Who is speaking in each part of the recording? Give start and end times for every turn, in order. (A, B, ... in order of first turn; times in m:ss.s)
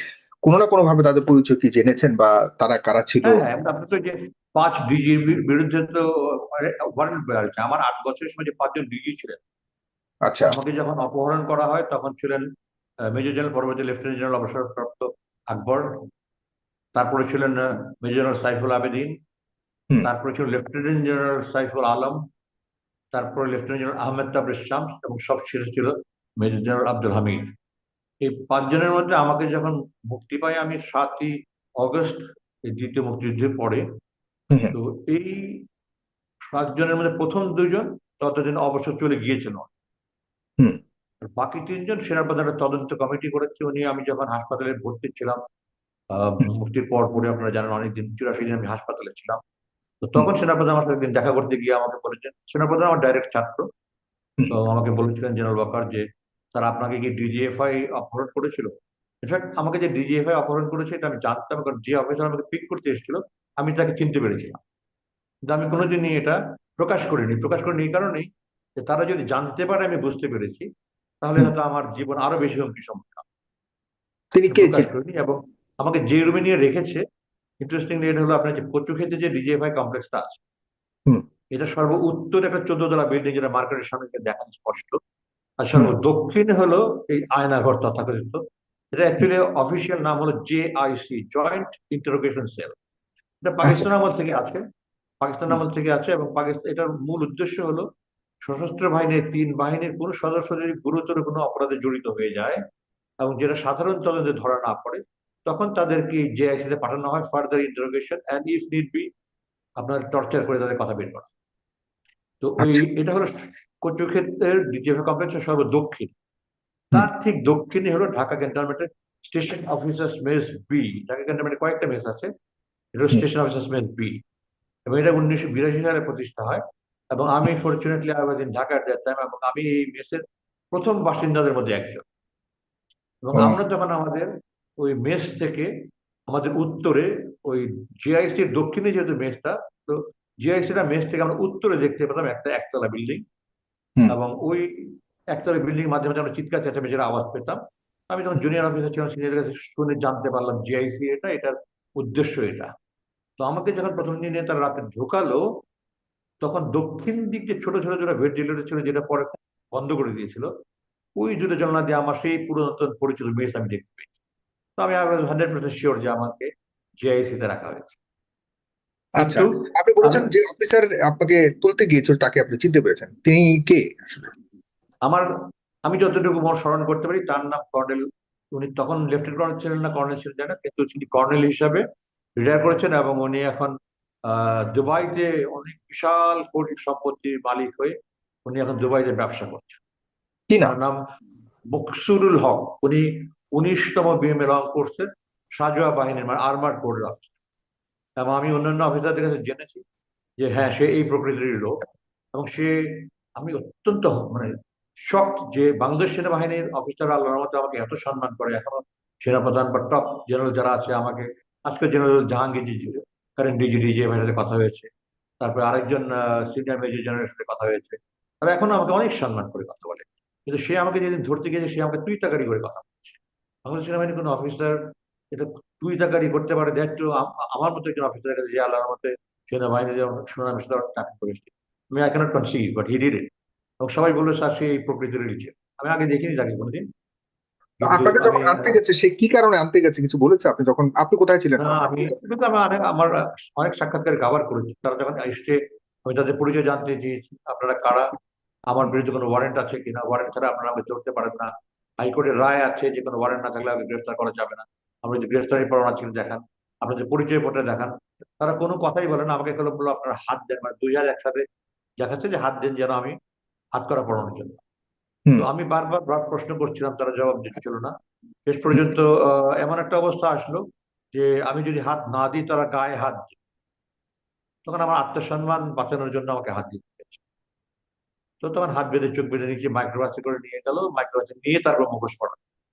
0:00.4-0:03.4 A
0:03.2-0:09.4 B
0:10.3-0:10.6 A
0:10.5-0:12.5 B
0:13.0-0:16.0 B
0:17.0-0:19.2 B
0:20.0-0:22.2 B
0:23.1-0:27.5 B
0:28.2-0:33.9 B
0:34.7-0:35.6 B
0:36.5-0:39.7 B
0:41.2-0:45.4 B
0:46.1-0:49.4 B
0:50.0-0:53.7 B
0:54.5-0:58.7 B
0:59.2-1:04.6 B
1:05.5-1:10.7 B
1:11.2-1:13.2 B
1:14.3-1:14.9 A
1:14.5-1:17.0 B
1:17.6-1:20.4 B
1:21.5-1:25.0 B
1:25.6-1:28.4 B
1:28.9-1:32.8 B
1:33.4-1:34.6 B
1:33.6-1:33.9 A
1:35.2-1:37.9 B
1:38.4-1:42.6 B
1:43.2-1:49.1 B
1:49.8-1:51.3 B
1:52.4-1:56.1 B
1:56.9-2:02.3 B
2:02.9-2:04.2 B
2:04.9-2:06.6 B
2:07.1-2:12.0 B
2:13.2-2:15.7 B
2:16.3-2:23.2 B
2:24.1-2:32.7 B
2:33.4-2:35.4 B
2:36.4-2:40.5 B
2:41.2-2:44.2 B
2:44.8-2:46.5 B
2:47.0-2:48.0 B
2:49.2-2:54.3 A
2:49.2-2:50.3 B
2:55.8-3:01.8 B
3:02.4-3:03.7 B
3:04.3-3:07.9 B
3:08.5-3:09.8 B
3:10.5-3:10.8 A
3:10.6-3:11.0 B
3:11.7-3:17.3 B
3:18.2-3:19.8 B
3:20.4-3:24.5 B
3:25.0-3:34.9 B
3:35.4-3:53.3 B
3:53.8-3:56.8 B
3:57.8-3:58.8 B
3:57.8-4:02.1 A
4:01.6-4:08.0 B
4:08.7-4:11.5 B
4:12.0-4:21.4 B
4:22.0-4:23.2 B
4:23.8-4:24.6 B
4:25.4-4:27.9 B
4:28.5-4:33.4 B
4:34.6-4:37.2 B
4:38.4-4:42.4 B